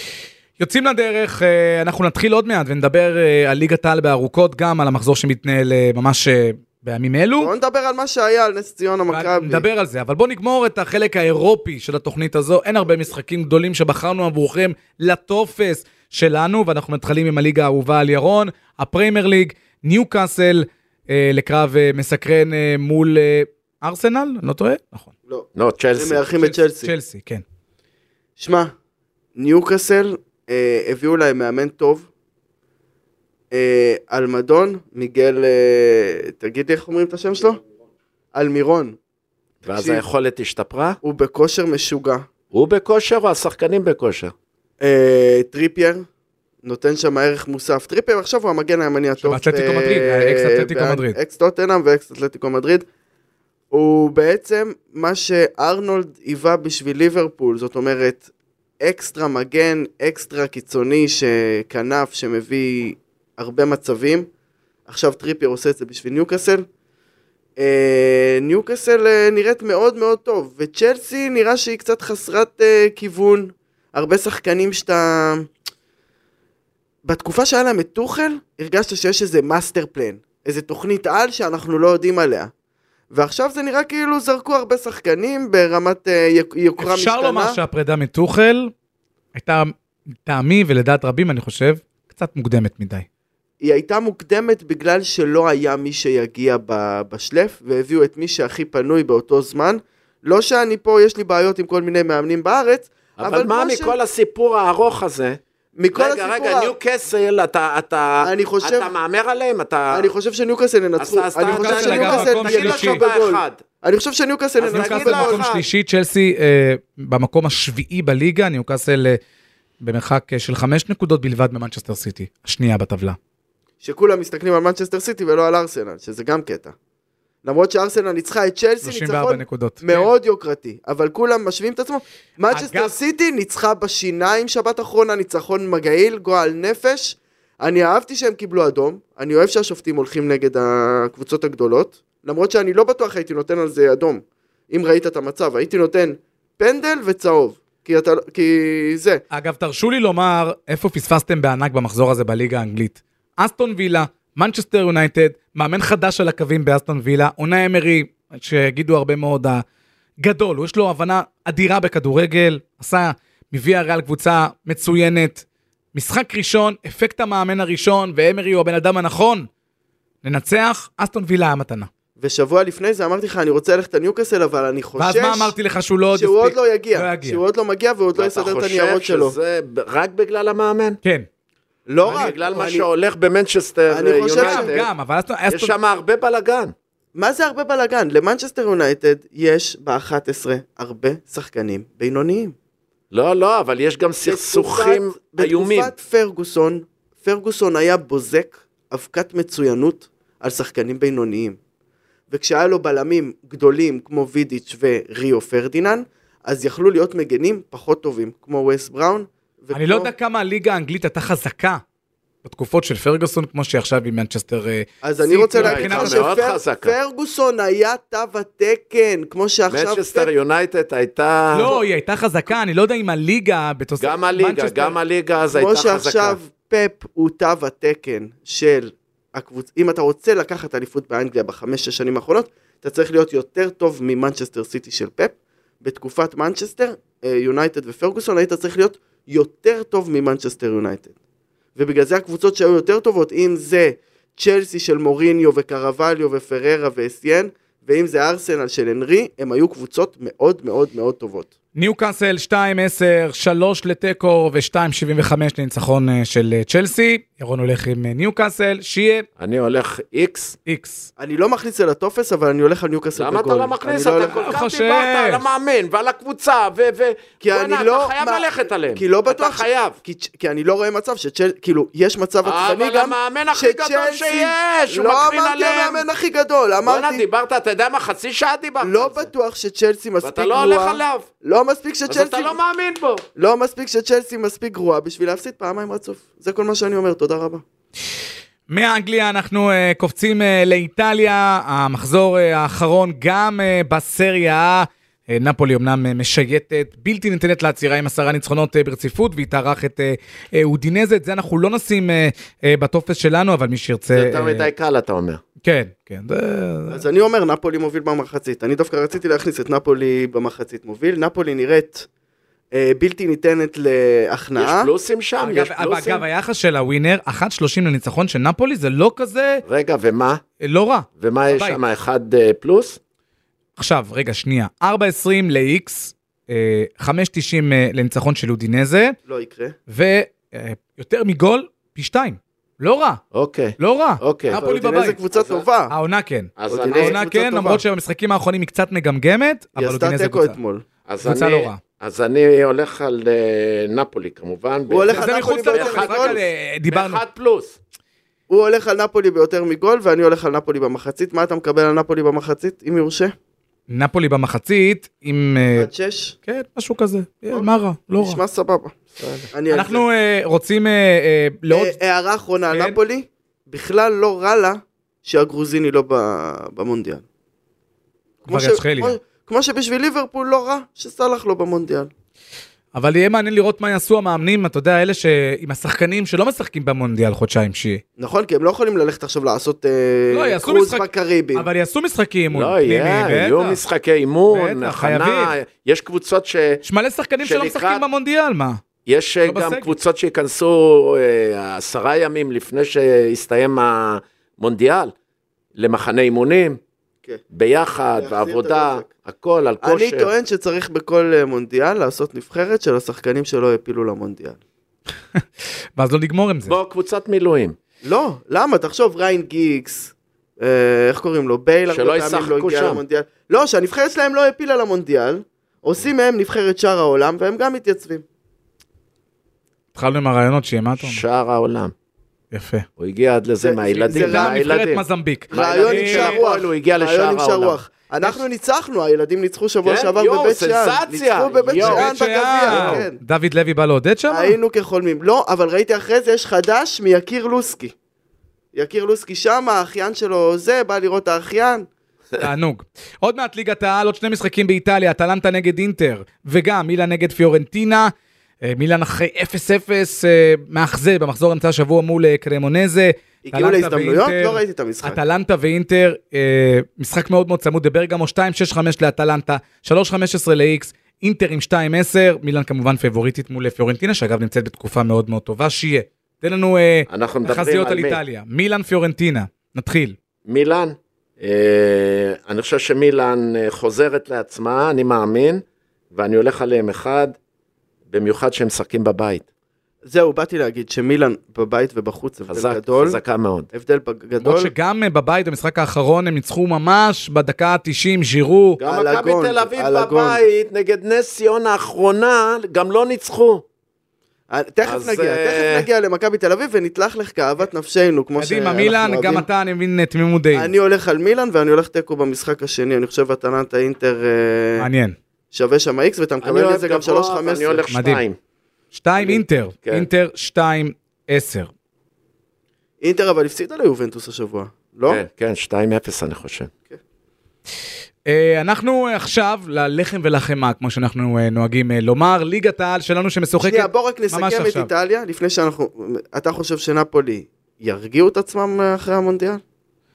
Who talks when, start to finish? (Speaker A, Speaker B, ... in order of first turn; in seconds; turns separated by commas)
Speaker A: 0.6-7.5, Speaker B: 7.4-9.6, Speaker A: 9.1-25.1, Speaker B: 25.3-26.9, Speaker C: 25.5-26.2, Speaker A: 26.4-27.4, Speaker B: 28.4-28.7, Speaker B: 29.4-32.0, Speaker B: 33.5-37.6, Speaker B: 38.3-39.0, Speaker C: 39.6-41.0, Speaker B: 39.7-40.0, Speaker B: 41.0-42.3, Speaker C: 42.5-44.3, Speaker B: 44.8-46.0, Speaker B: 46.6-52.8, Speaker A: 49.2-51.2, Speaker B: 53.7-58.2, Speaker B: 58.8-64.3, Speaker B: 64.9-66.6, Speaker B: 67.6-75.5, Speaker B: 77.0-82.5, Speaker B: 83.1-87.6, Speaker A: 86.8-88.7, Speaker A: 89.3-89.7, Speaker A: 90.2-93.0, Speaker B: 93.6-103.9, Speaker C: 103.2-105.4, Speaker B: 105.8-106.7, Speaker C: 105.9-110.1, Speaker B: 108.2-108.9, Speaker B: 109.9-115.4, Speaker C: 111.0-113.6, Speaker A: 111.5-113.0, Speaker C: 114.6-115.6, Speaker A: 114.6-119.2, Speaker A: 119.8-123.2, Speaker B: 123.8-126.7, Speaker B: 127.4-149.2, Speaker A: 128.8-130.1, Speaker A: 132.5-132.9, Speaker A: 149.3-159.6, Speaker A: 160.2-169.5, Speaker A: 170.2-171.9, Speaker B: 172.2-175.5, Speaker A: 175.0-177.4, Speaker B: 176.1-179.3, Speaker C: 178.1-181.0, Speaker B: 181.9-182.8, Speaker C: 182.0-184.9, Speaker B: 183.9-184.8, Speaker A: 184.3-185.7, Speaker C: 185.5-186.7, Speaker B: 187.1-192.5, Speaker C: 193.1-195.9, Speaker B: 194.2-201.6, Speaker B: 202.3-210.1, Speaker A: 209.7-211.8, Speaker A: 212.4-216.3, Speaker B: 215.0-220.3, Speaker C: 215.6-216.9, Speaker C: 219.7-221.7, Speaker A: 221.5-225.0, Speaker C: 224.0-226.4, Speaker B: 225.5-241.1, Speaker B: 241.8-251.5, Speaker A: 251.7-259.2, Speaker C: 259.4-260.6, Speaker A: 260.6-261.1, Speaker B: 261.2-264.6, Speaker C: 263.1-270.0, Speaker A: 264.3-265.4, Speaker B: 267.4-277.2, Speaker C: 272.4-276.1, Speaker C: 276.8-279.3, Speaker B: 278.8-282.5, Speaker C: 280.2-281.3, Speaker C: 282.1-283.2, Speaker B: 283.4-287.6, Speaker A: 288.7-304.7, Speaker C: 304.1-305.4, Speaker A: 305.6-307.0, Speaker B: 306.9-312.1, Speaker B: 312.7-314.9, Speaker C: 314.6-316.2, Speaker A: 315.4-319.6, Speaker C: 319.6-320.4, Speaker A: 320.6-321.8, Speaker C: 321.2-323.0, Speaker A: 323.8-329.1, Speaker B: 329.2-329.8, Speaker A: 329.9-333.2, Speaker C: 333.3-334.6, Speaker A: 333.8-335.2, Speaker B: 334.5-335.9, Speaker C: 335.3-335.6, Speaker A: 335.9-340.6, Speaker C: 336.6-337.2, Speaker B: 336.7-337.8, Speaker B: 339.8-340.8, Speaker C: 341.1-347.8, Speaker A: 341.2-341.8, Speaker B: 344.9-346.4, Speaker A: 345.1-347.2, Speaker B: 348.5-353.3, Speaker A: 353.9-355.9, Speaker B: 355.7-356.3, Speaker A: 356.4-358.4, Speaker B: 357.5-358.9, Speaker C: 359.2-359.5, Speaker B: 359.5-360.0, Speaker A: 359.7-361.9, Speaker B: 361.7-367.2, Speaker A: 362.7-363.0, Speaker B: 368.4-372.1, Speaker A: 368.5-369.1, Speaker A: 372.9-378.0, Speaker B: 378.2-381.7, Speaker A: 380.3-383.8, Speaker C: 382.5-386.8, Speaker A: 384.5-385.6, Speaker A: 386.8-388.8, Speaker C: 387.4-388.0, Speaker C: 389.1-395.1, Speaker A: 389.4-389.9, Speaker C: 395.7-396.8, Speaker C: 397.5-400.3, Speaker B: 398.2-399.1, Speaker B: 399.8-404.6, Speaker A: 405.9-406.8, Speaker C: 406.7-407.8, Speaker B: 408.0-418.2, Speaker C: 411.9-413.0, Speaker A: 419.9-421.2, Speaker C: 421.0-421.9, Speaker A: 422.5-422.9, Speaker C: 423.0-427.8, Speaker B: 423.6-424.6, Speaker A: 424.1-426.4, Speaker B: 425.5-433.2, Speaker C: 429.8-432.1, Speaker A: 431.7-434.6, Speaker C: 432.6-433.0, Speaker B: 434.3-437.9, Speaker B: 438.7-441.9, Speaker A: 442.4-470.2, Speaker B: 453.4-455.2, Speaker C: 467.1-468.2, Speaker C: 470.4-477.4, Speaker C: 478.1-479.4, Speaker B: 480.1-483.2, Speaker C: 482.5-483.7, Speaker B: 483.7-484.7, Speaker A: 484.4-488.8, Speaker C: 488.8-493.6, Speaker B: 488.8-490.4, Speaker B: 494.5-499.4, Speaker C: 494.8-495.9, Speaker A: 498.4-500.7, Speaker B: 500.5-504.9, Speaker A: 504.8-505.1, Speaker B: 505.5-507.9, Speaker C: 506.4-508.4, Speaker A: 507.9-508.2, Speaker A: 508.9-511.7, Speaker C: 509.1-510.1, Speaker B: 513.0-515.2, Speaker C: 515.1-516.7, Speaker A: 518.2-524.9, Speaker B: 523.6-529.6